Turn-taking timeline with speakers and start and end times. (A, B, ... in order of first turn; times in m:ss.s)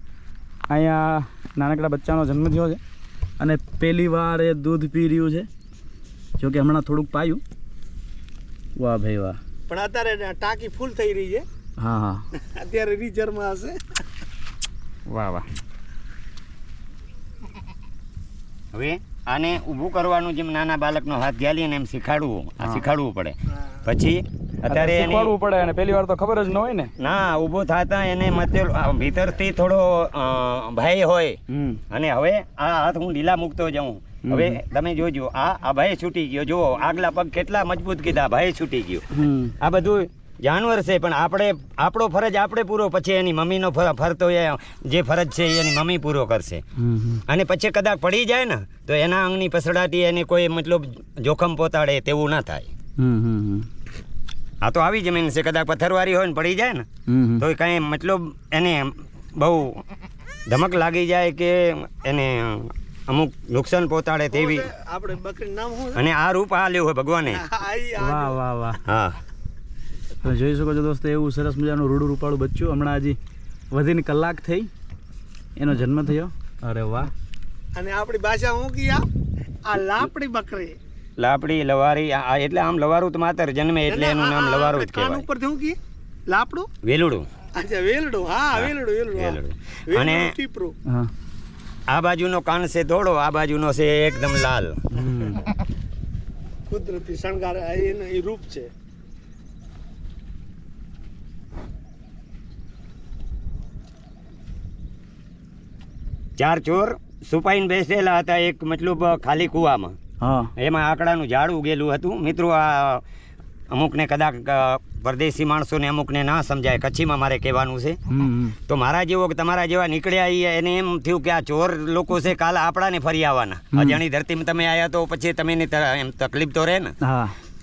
0:00.7-0:02.8 A
0:03.4-0:05.5 A
0:06.4-0:07.4 A
0:08.8-0:09.4 A
0:09.7-0:11.5 B
0:11.8-0:12.2 A
0:12.6-0:13.8 B
0:15.1-0:15.5 A
0:18.7-0:25.3 C
0:24.7-0:26.9 A
0:27.0-0:31.4 C
0:31.5-0:31.8 A
0:31.9-0:39.0 C
0:34.2-0:34.6 A
0:39.1-0:39.5 A
0:39.6-0:46.6 C
0:46.8-0:47.2 A
0:47.3-0:52.7 C
0:53.0-0:53.7 A
0:54.6-0:56.9 C
0:57.1-0:57.4 A
0:57.4-0:59.8 C
1:00.5-1:04.7 C
1:04.3-1:06.0 B
1:06.0-1:07.4 C
1:07.3-1:08.3 B
1:08.0-1:08.8 A
1:08.8-1:09.2 C
1:10.2-1:13.2 A
1:13.7-1:14.7 A
1:15.6-1:17.1 A
1:17.8-1:19.0 B
1:19.7-1:20.8 B
1:21.2-1:25.2 C
1:23.9-1:25.8 B
1:26.3-1:26.7 B
1:26.8-1:27.3 C
1:27.6-1:30.8 B
1:28.5-1:30.4 C
1:31.9-1:34.8 C
1:34.9-1:35.4 A
1:36.7-1:38.7 B
1:46.4-1:50.0 C
1:50.2-1:50.5 A
1:50.6-1:53.0 C
1:53.7-1:58.0 C
1:58.1-1:58.6 A
1:58.7-2:06.9 C
2:03.7-2:04.0 A
2:07.0-2:07.4 A